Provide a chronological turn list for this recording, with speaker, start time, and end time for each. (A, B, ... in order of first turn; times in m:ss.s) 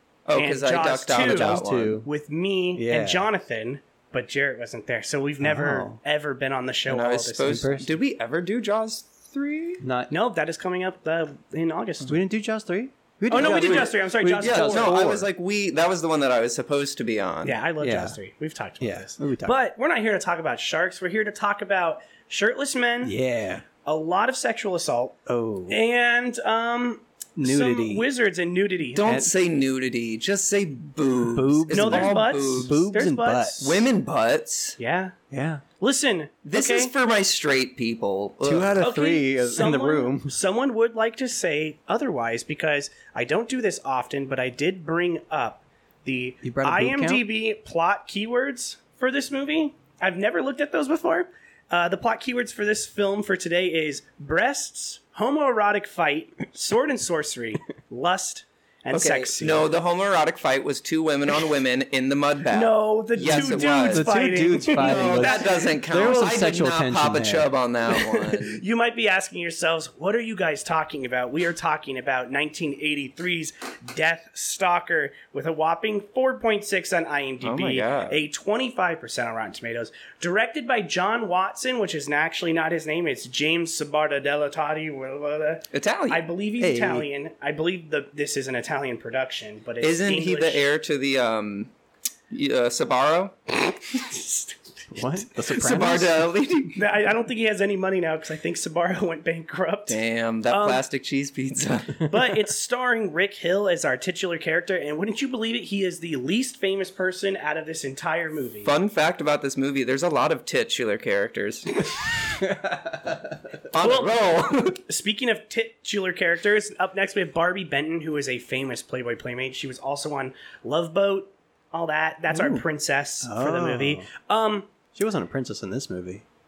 0:00.2-0:02.0 A
0:00.3-0:07.6 B
0:01.1-0:02.1 C
0:02.8-0:03.3 C
0:05.4-0:06.0 C
0:06.9-0:09.8 A
0:07.4-0:08.0 C
0:09.8-0:10.1 C
0:10.1-0:12.2 B
0:12.0-0:15.3 C
0:13.3-0:14.9 B
0:13.3-0:17.6 A
0:17.4-0:23.2 B
0:17.8-0:18.2 C
0:18.8-0:19.6 C
0:23.0-0:23.6 C
0:23.8-0:25.2 B
0:25.2-0:25.8 C
0:25.7-0:29.0 B
0:27.4-0:28.1 C
0:29.0-0:32.8 A
0:29.0-0:29.3 C
0:31.3-0:33.6 C
0:31.7-0:33.8 B
0:33.6-0:34.8 A
0:34.8-0:35.1 B
0:35.3-0:35.6 C
0:35.8-0:36.9 B
0:36.5-0:38.9 A
0:38.4-0:40.3 C
0:38.8-0:59.7 B
0:46.4-0:47.2 C
0:58.9-1:04.1 A
1:02.5-1:05.6 B
1:03.2-1:07.5 C
1:04.8-1:08.6 A
1:07.9-1:30.6 B
1:17.4-1:18.2 A
1:25.7-1:26.3 A
1:26.6-1:27.1 C
1:29.8-1:31.7 A
1:32.3-1:33.3 A
1:33.9-1:34.5 B
1:34.9-1:36.3 C
1:35.5-1:36.8 A
1:36.7-1:40.8 B
1:39.9-1:42.2 A
1:42.0-1:48.7 B
1:48.6-1:51.9 A
1:52.6-1:53.2 C
1:53.7-1:54.8 A
1:53.8-1:54.2 B
1:54.8-2:04.7 B
2:02.3-2:02.6 A
2:03.2-2:04.1 C
2:04.9-2:06.2 C